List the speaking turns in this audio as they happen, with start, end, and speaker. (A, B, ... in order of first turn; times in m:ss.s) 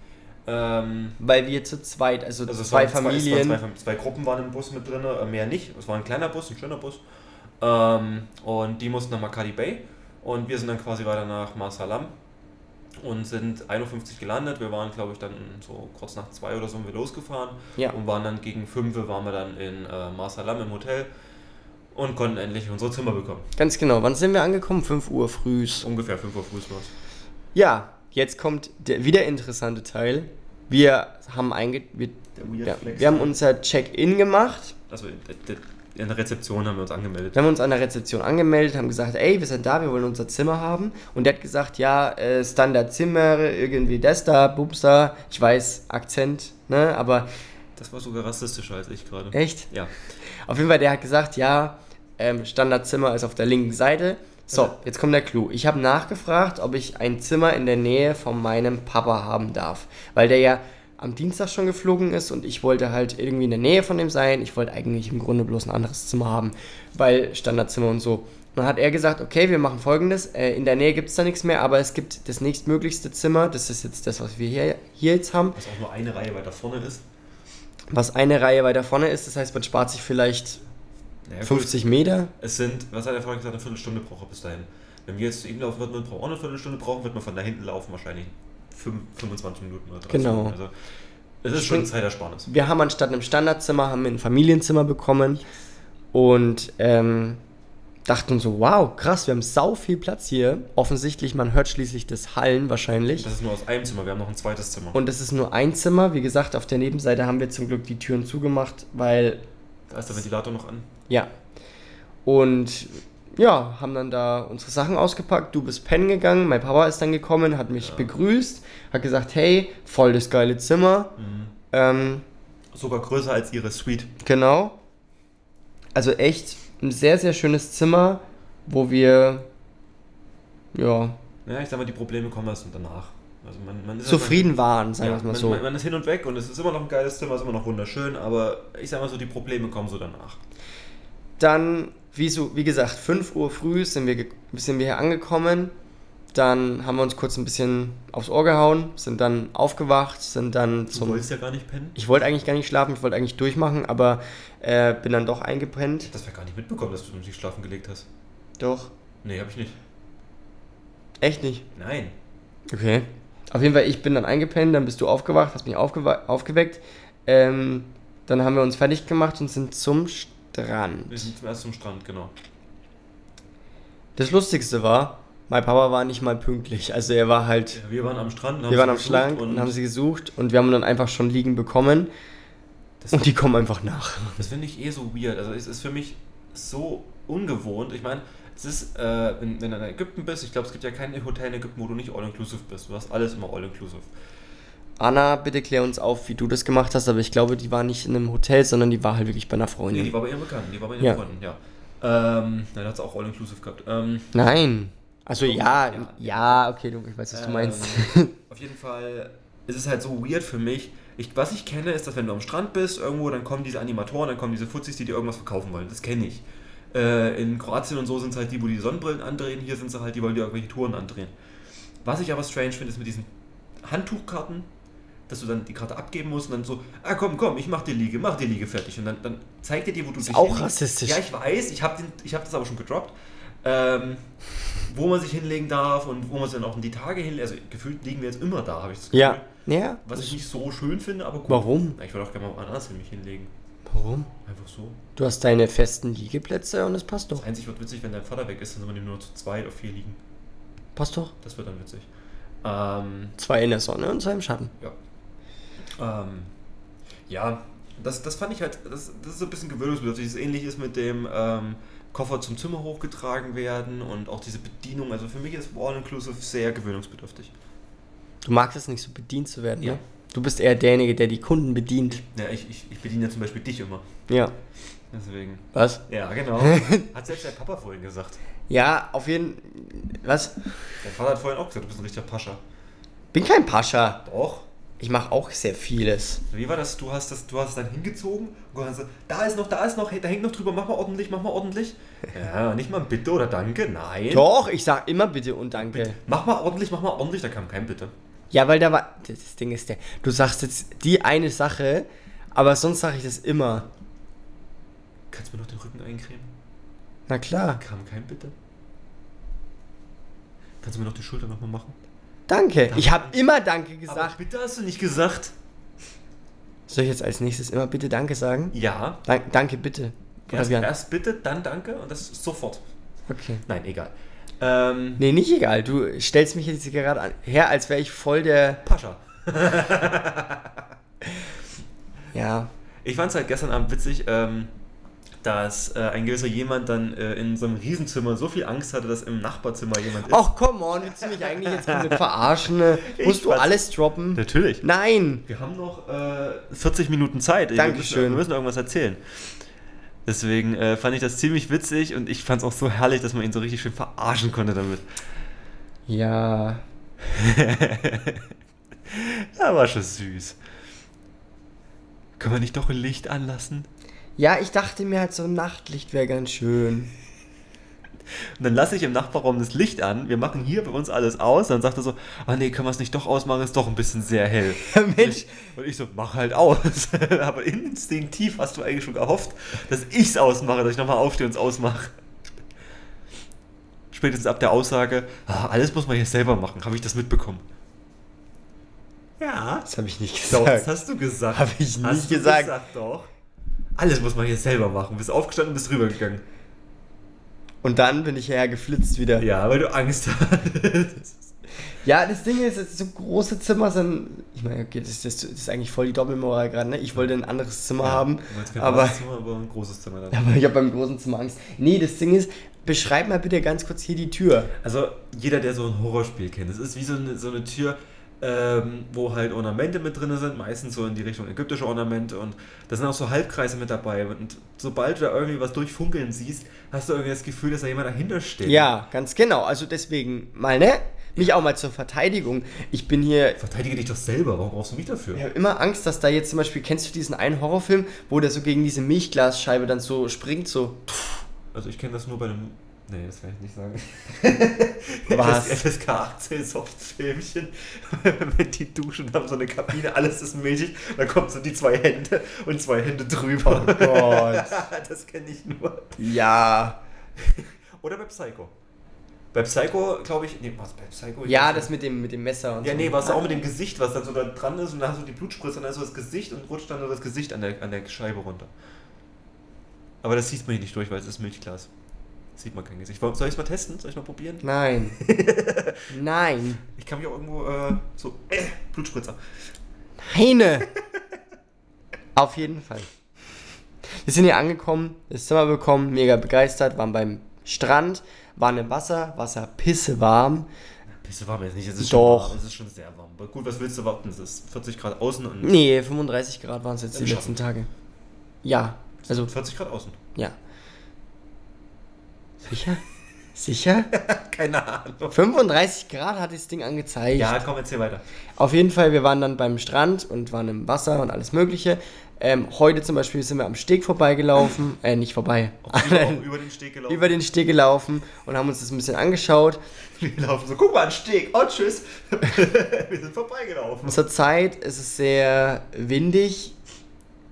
0:00.4-0:01.2 A
0:01.2-0:03.6 B
0:02.4-0:07.0 A
0:07.6-0:12.1 A
0:13.0-0:21.1 A
0:21.9-0:23.5 A
0:23.6-0:25.9 B
0:25.8-0:26.9 A
0:27.5-0:34.8 B
0:32.4-0:33.4 A
0:34.9-0:37.4 A
0:37.4-0:47.3 B
0:47.8-0:49.9 A
0:49.3-0:49.7 B
0:50.4-1:15.6 B
1:15.5-1:17.0 A
1:17.9-1:20.6 B
1:21.2-1:21.9 A
1:21.4-1:22.3 B
1:22.4-1:30.7 A
1:30.1-1:30.6 B
1:31.4-1:32.5 A
1:31.5-1:31.9 B
1:32.4-1:35.4 B
1:36.1-1:37.4 B
1:38.0-1:43.3 B
1:43.1-1:45.0 A
1:44.9-1:49.4 B
1:49.9-1:50.9 A
1:52.2-2:01.2 B
1:57.8-1:58.1 A
2:01.2-2:01.5 A
2:01.7-2:02.2 B
2:02.7-2:04.1 A
2:04.2-2:04.8 B
2:06.0-2:09.5 B
2:10.7-2:11.2 B
2:11.4-2:20.4 A
2:14.0-2:15.6 B
2:21.4-2:25.7 B
2:26.3-2:31.2 B
2:30.9-2:32.0 A
2:32.0-2:36.1 B
2:36.0-2:38.1 A
2:38.6-2:38.9 B
2:39.2-2:39.8 A
2:41.2-2:41.7 B
2:41.8-2:42.1 A
2:42.7-2:51.3 B
2:51.1-2:52.3 A
2:54.2-2:57.8 B
2:57.7-2:59.8 A
2:58.7-3:02.1 B
3:03.0-3:03.3 A
3:03.1-3:04.4 B
3:04.4-3:14.1 A
3:15.0-3:20.1 B
3:19.9-3:24.4 A
3:24.3-3:28.3 B
3:25.4-3:26.7 A
3:27.3-3:41.3 A
3:42.0-3:43.3 A
3:43.8-3:44.7 A
3:45.3-3:54.2 A
3:50.2-3:51.2 B
3:54.8-3:59.5 A
3:59.1-4:00.4 B
4:00.0-4:03.5 A
4:01.5-4:02.0 B
4:03.9-4:04.3 B
4:04.4-4:05.0 A
4:05.2-4:07.4 B
4:07.4-4:10.2 A
4:11.0-4:11.3 B
4:11.4-4:12.1 A
4:12.6-4:13.3 A
4:13.4-4:14.7 B
4:16.0-4:16.5 A
4:17.3-4:27.5 A
4:28.4-4:32.2 B
4:32.1-4:34.0 A
4:34.3-4:34.5 B
4:35.1-4:38.4 A
4:35.7-4:36.0 B
4:36.6-4:37.1 B
4:38.7-4:40.6 B
4:41.0-4:42.6 A
4:43.3-4:44.2 B
4:44.2-4:44.7 A
4:45.0-4:46.4 B
4:46.5-4:54.5 A
4:54.3-4:56.2 B
4:55.8-4:58.1 A
4:58.5-5:03.9 B
5:05.3-5:06.5 A
5:07.3-5:07.8 B
5:07.8-5:08.5 A
5:10.8-5:12.0 A
5:12.5-5:14.4 B
5:12.9-5:13.4 A
5:14.1-5:15.5 A
5:16.9-5:20.9 B
5:18.7-5:19.2 A
5:20.5-5:22.8 A
5:23.3-5:23.6 B
5:23.7-5:25.2 A
5:25.2-5:28.8 B
5:28.8-5:30.9 A
5:32.3-5:32.7 B
5:33.0-5:34.7 A
5:35.4-5:40.5 A
5:40.3-5:45.5 B
5:41.1-5:43.8 A
5:44.3-5:44.8 A
5:45.5-5:49.2 A
5:47.8-5:48.4 B
5:50.2-5:55.0 A
5:56.1-5:56.8 B
5:57.2-5:58.5 A
5:59.1-6:00.6 A
6:02.4-6:03.9 A
6:04.4-6:07.1 B
6:08.6-6:22.1 A
6:14.8-6:15.7 B
6:24.1-6:27.6 A
6:29.4-6:29.8 A
6:29.8-6:30.9 B
6:30.5-6:33.3 A
6:31.5-6:32.8 B
6:34.0-6:36.4 A
6:37.8-6:39.5 B
6:39.4-6:41.5 A
6:42.0-6:49.2 B
6:48.0-6:50.4 A
6:50.3-6:54.7 B
6:54.8-7:08.9 A
7:08.6-7:13.6 B
7:13.6-7:15.4 A
7:15.3-7:21.4 B
7:21.7-7:36.2 A
7:25.3-7:25.8 B
7:33.6-7:34.8 B
7:36.2-7:37.0 B
7:37.4-7:38.7 A
7:39.5-7:41.9 A
7:41.5-7:43.6 B
7:42.8-7:48.7 A
7:50.2-7:51.9 A
7:52.5-7:54.6 A
7:54.6-7:55.2 B
7:55.2-7:56.1 A
7:56.1-7:56.8 B
7:56.8-7:59.4 A
8:00.2-8:00.9 B
8:00.9-8:01.2 A
8:02.4-8:03.1 B
8:04.2-8:10.7 B
8:11.1-8:15.8 A
8:12.0-8:12.6 B
8:15.6-8:17.9 B
8:17.1-8:17.6 A
8:18.6-8:19.5 B
8:19.2-8:20.2 A
8:22.7-8:23.0 B
8:23.5-8:24.1 B
8:24.1-8:25.4 A
8:25.3-8:27.6 B
8:27.3-8:28.2 A
8:28.6-8:36.4 B
8:35.8-8:37.4 A
8:37.1-8:39.8 B
8:40.2-8:44.2 A
8:44.0-8:46.8 B